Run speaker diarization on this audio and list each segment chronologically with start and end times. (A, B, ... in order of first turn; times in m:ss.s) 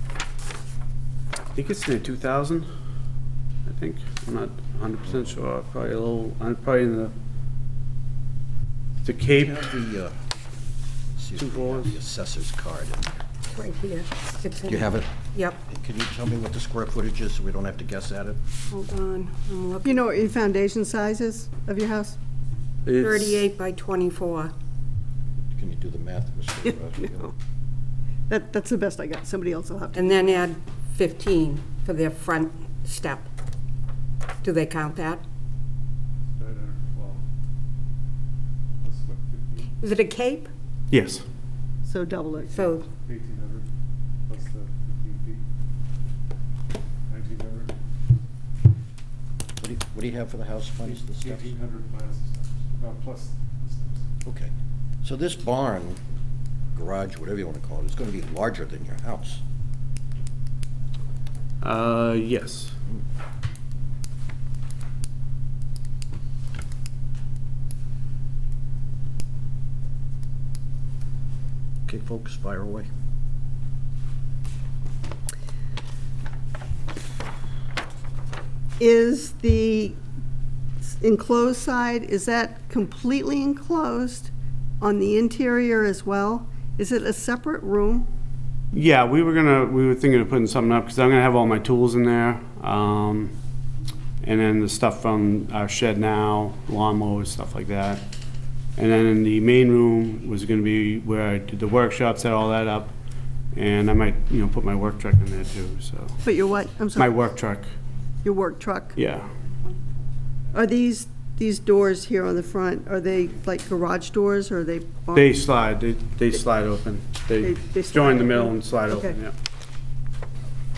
0:01.5-0:02.7 A
0:03.6-0:07.1 A
0:09.0-0:09.7 A
0:09.4-0:10.1 B
0:11.1-0:13.1 B
0:11.4-0:11.9 A
0:13.5-0:15.6 C
0:14.6-0:18.4 B
0:18.7-0:20.0 C
0:19.8-0:22.2 D
0:22.8-0:23.4 A
0:23.0-0:24.5 C
0:25.6-0:27.3 B
0:27.0-0:27.3 D
0:28.3-0:30.4 D
0:29.9-0:33.3 C
0:34.4-0:35.2 C
0:36.3-0:37.2 E
0:38.8-0:39.7 E
0:39.8-0:40.5 C
0:40.9-0:41.2 A
0:41.8-0:42.6 D
0:42.5-0:42.9 C
0:43.0-0:43.7 E
0:44.3-0:45.4 E
0:47.1-0:47.8 E
0:49.6-0:51.5 B
0:51.2-0:54.1 E
0:54.2-0:54.5 B
0:55.0-0:56.0 B
0:56.7-0:59.4 B
1:01.6-1:02.8 A
1:11.8-1:12.9 B
1:18.8-1:20.0 D
1:20.8-1:28.1 D
1:28.7-1:33.3 A
1:34.2-1:38.0 A
1:38.8-1:42.9 A
1:43.5-1:46.2 A
1:46.2-1:47.2 D
1:47.0-1:47.7 A
1:48.2-1:49.0 D
1:49.0-1:49.3 A
1:50.5-1:55.3 D
1:55.1-1:59.3 A
1:57.4-1:59.1 D